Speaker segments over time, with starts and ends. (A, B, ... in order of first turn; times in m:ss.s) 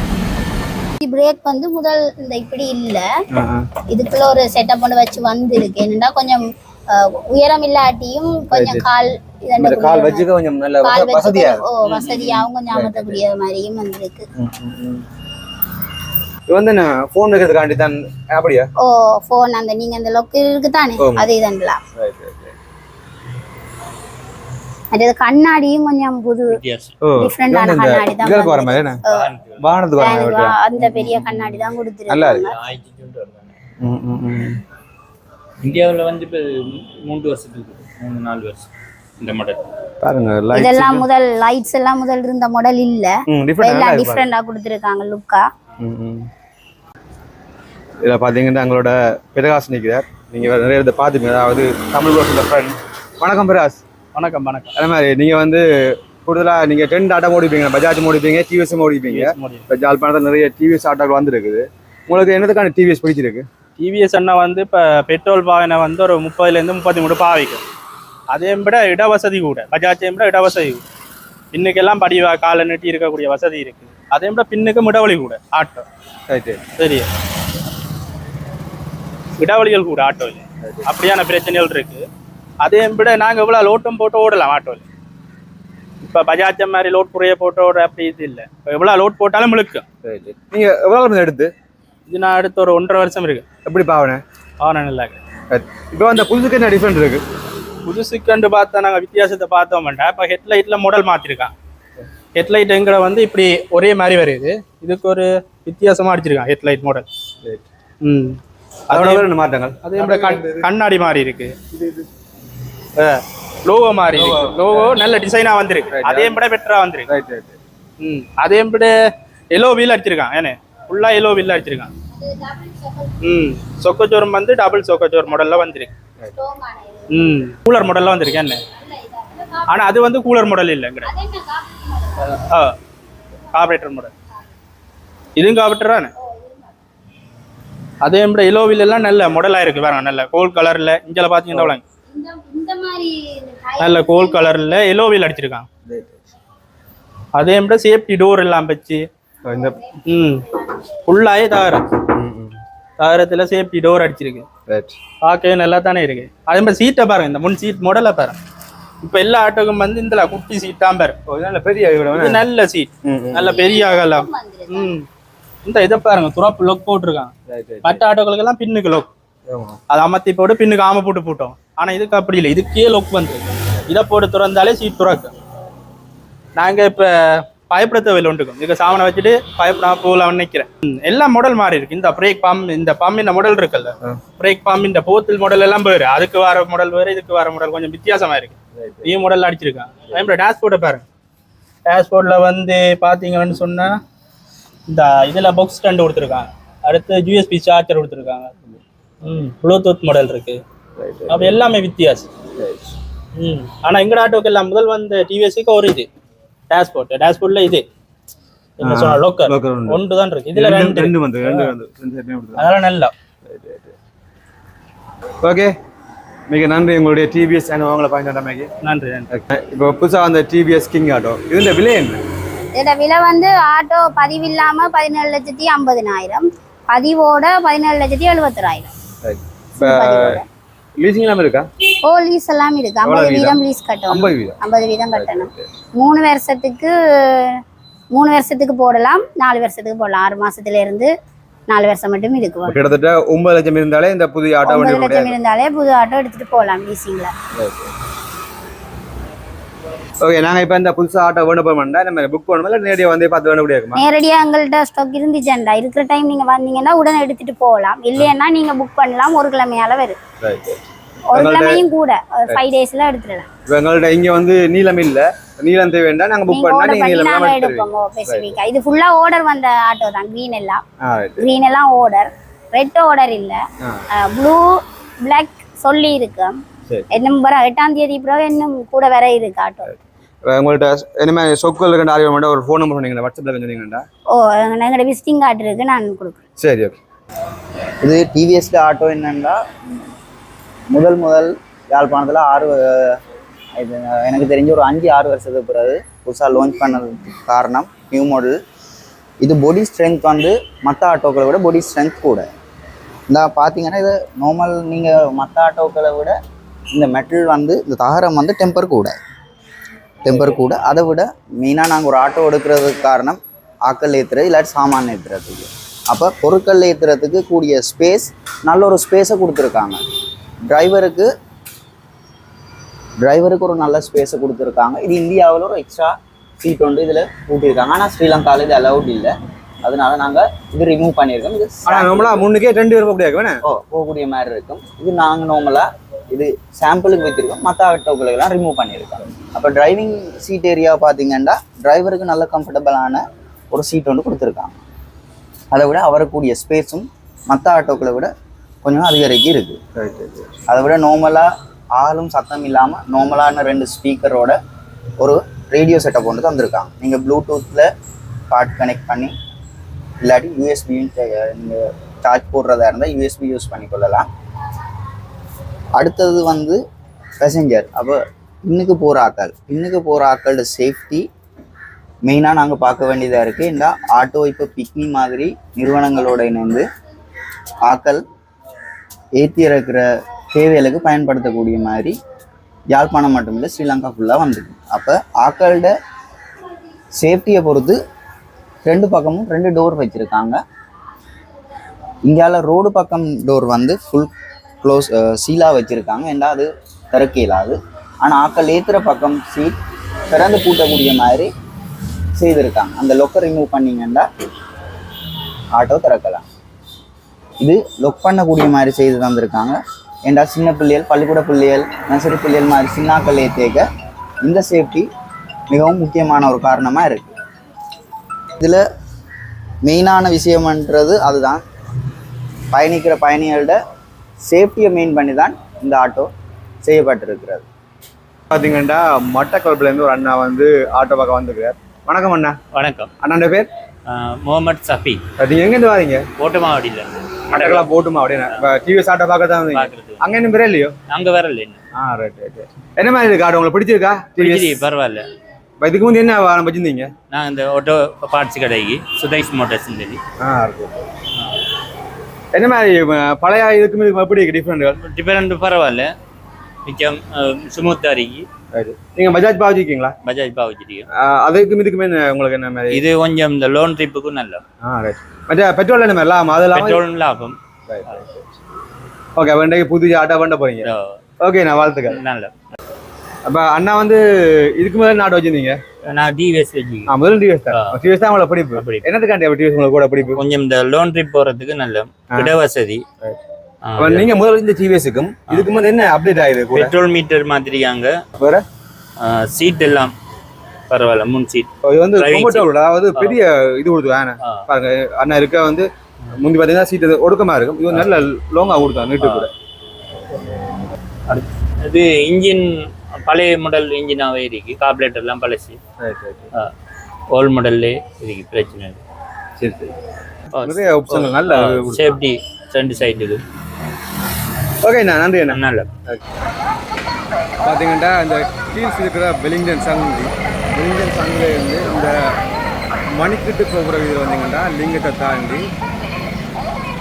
0:01.0-0:03.1 A
0:03.3-0:03.7 B
0:03.9-0:10.3 A
0:08.5-0:08.9 B
0:09.6-0:13.2 B
0:10.8-0:14.3 A
0:14.4-0:15.0 B
0:16.5-0:18.7 B
0:18.8-0:21.8 A
0:21.0-0:21.3 B
0:22.0-0:22.6 B
0:24.9-0:26.6 A
0:26.5-0:27.0 C
0:27.0-0:29.0 B
0:27.2-0:29.3 A
0:29.1-0:29.6 C
0:29.6-0:32.4 B
0:30.0-0:32.5 A
0:32.4-0:33.6 C
0:33.8-0:34.6 B
0:35.6-0:39.7 C
0:40.0-0:41.1 B
0:40.5-0:45.4 A
0:43.3-0:44.3 B
0:45.8-0:46.3 B
0:48.0-0:53.8 B
0:54.2-0:54.7 D
0:54.8-0:55.7 B
0:56.2-1:03.5 B
0:59.0-0:59.7 D
1:03.8-1:07.6 D
1:08.3-1:10.8 D
1:11.5-1:15.9 D
1:16.3-1:16.6 B
1:16.8-1:17.1 D
1:19.4-1:22.1 D
1:20.6-1:20.9 B
1:22.6-1:24.8 D
1:26.0-1:29.8 D
1:30.0-1:31.5 B
1:32.1-1:33.4 D
1:33.6-1:34.2 B
1:34.6-1:35.2 D
1:35.5-1:37.2 B
1:37.8-1:41.5 D
1:42.4-1:47.1 D
1:48.0-1:49.3 D
1:48.9-1:50.7 B
1:49.8-1:51.6 D
1:51.7-1:52.1 B
1:53.0-1:57.1 D
1:54.2-1:55.0 B
1:55.9-1:56.4 B
1:57.1-1:57.6 B
1:58.0-1:59.0 D
1:59.5-2:01.9 D
2:02.2-2:03.2 A
2:03.2-2:05.9 D
2:06.3-2:07.4 A
2:07.1-2:08.6 D
2:08.8-2:09.8 A
2:09.7-2:11.1 D
2:11.0-2:12.4 A
2:12.2-2:12.8 D
2:13.5-2:14.1 D
2:15.4-2:16.1 D
2:16.3-2:16.6 A
2:18.0-2:21.8 D
2:22.1-2:24.5 A
2:23.8-2:25.7 D
2:25.9-2:26.2 B
2:27.3-2:29.1 D
2:29.4-2:29.8 B
2:30.0-2:30.5 D
2:31.0-2:32.0 D
2:32.1-2:32.6 B
2:33.0-2:34.5 D
2:34.7-2:35.0 B
2:35.2-2:38.4 D
2:39.0-2:41.2 D
2:41.3-2:42.4 B
2:42.1-2:45.1 D
2:43.0-2:43.6 B
2:43.4-2:44.9 A
2:45.6-2:47.3 D
2:47.5-2:48.0 B
2:47.8-2:49.1 D
2:49.5-2:49.8 B
2:49.9-2:55.3 D
2:56.6-3:11.0 D
3:08.8-3:09.1 B
3:11.9-3:14.0 D
3:14.9-3:18.5 D
3:19.2-3:20.6 D
3:21.0-3:21.6 B
3:21.3-3:22.3 D
3:22.5-3:22.9 B
3:23.4-3:26.1 D
3:26.7-3:27.8 D
3:28.8-3:31.7 D
3:28.8-3:30.0 B
3:30.5-3:32.7 B
3:32.6-3:33.1 D
3:33.4-3:34.0 B
3:35.4-3:35.7 B
3:36.5-3:38.7 B
3:38.8-3:39.3 D
3:39.3-3:42.2 B
3:42.8-3:48.9 A
3:49.2-3:50.4 B
3:49.8-3:50.5 A
3:51.0-3:51.7 B
3:52.0-3:57.6 A
3:53.0-3:54.6 B
3:55.1-3:55.7 B
3:58.1-4:01.1 A
4:01.7-4:02.8 A
4:02.7-4:05.4 B
4:04.6-4:07.3 A
4:07.6-4:07.9 B
4:10.2-4:14.0 B
4:14.0-4:20.2 A
4:20.4-4:21.8 B
4:21.3-4:23.5 A
4:23.7-4:28.6 B
4:26.5-4:30.8 A
4:31.0-4:31.5 B
4:31.4-4:33.6 A
4:34.2-4:36.6 A
4:37.1-4:39.9 A
4:39.9-4:44.0 B
4:44.3-4:46.4 A
4:46.6-4:47.0 B
4:48.0-4:49.6 E
4:50.9-4:53.2 E
4:53.8-4:58.6 E
4:59.4-5:02.5 E
5:03.3-5:06.4 E
5:06.9-5:09.2 E
5:10.2-5:20.0 E
5:20.7-5:21.3 E
5:23.2-5:32.4 E
5:31.9-5:33.6 B
5:33.7-5:44.8 E
5:45.7-5:48.3 E
5:48.8-5:49.8 E
5:50.0-5:50.5 B
5:50.7-5:54.6 E
5:55.2-5:57.9 E
5:58.5-5:59.3 E
6:00.2-6:04.3 E
6:06.0-6:06.8 E
6:07.4-6:11.3 E
6:12.2-6:16.8 E
6:17.9-6:18.2 E
6:19.4-6:22.2 E
6:22.9-6:25.9 E
6:27.2-6:28.0 E
6:28.8-6:30.6 E
6:32.2-6:34.3 E
6:34.8-6:39.8 E
6:40.3-6:41.5 E
6:42.4-6:44.3 E
6:45.8-6:46.4 E
6:47.6-6:53.8 E
6:54.4-6:55.1 E
6:55.7-6:57.3 E
6:58.6-6:58.8 E
6:59.8-7:01.6 E
7:02.7-7:03.8 E
7:04.4-7:06.3 E
7:06.8-7:07.6 E
7:08.5-7:12.6 B
7:12.7-7:13.1 C
7:13.2-7:13.7 B
7:14.1-7:15.2 C
7:15.4-7:16.3 B
7:16.4-7:17.9 C
7:17.5-7:21.0 B
7:19.7-7:20.2 C
7:21.1-7:21.8 C
7:22.0-7:24.8 B
7:24.4-7:25.3 C
7:25.8-7:27.1 B
7:27.3-7:30.2 C
7:30.4-7:31.0 B
7:32.5-7:35.0 B
7:35.0-7:36.1 C
7:36.8-7:38.5 C
7:38.7-7:40.2 B
7:40.2-7:41.1 C
7:41.1-7:43.0 B
7:42.9-7:44.6 C
7:44.8-7:47.0 B
7:46.7-7:48.2 C
7:47.9-7:48.2 B
7:49.4-7:50.9 B
7:50.8-7:51.2 C
7:51.4-7:52.2 B
7:52.1-7:52.5 C
7:53.5-7:55.8 B
7:56.0-7:57.1 C
7:57.1-8:00.4 B
7:57.7-7:58.0 C
7:58.8-7:59.0 C
8:00.3-8:03.0 C
8:03.9-8:04.3 C
8:04.0-8:07.0 B
8:06.7-8:08.1 C
8:08.4-8:08.6 B
8:09.2-8:10.1 C
8:10.9-8:13.4 C
8:11.8-8:19.5 B
8:14.4-8:14.7 C
8:19.2-8:19.5 C
8:21.3-8:25.8 C
8:26.0-8:26.5 B
8:27.3-8:29.0 C
8:29.6-8:29.9 B
8:30.5-8:33.4 C
8:30.6-8:32.1 B
8:34.8-8:36.2 B
8:35.5-8:35.9 C
8:37.6-8:42.2 B
8:43.1-8:45.7 B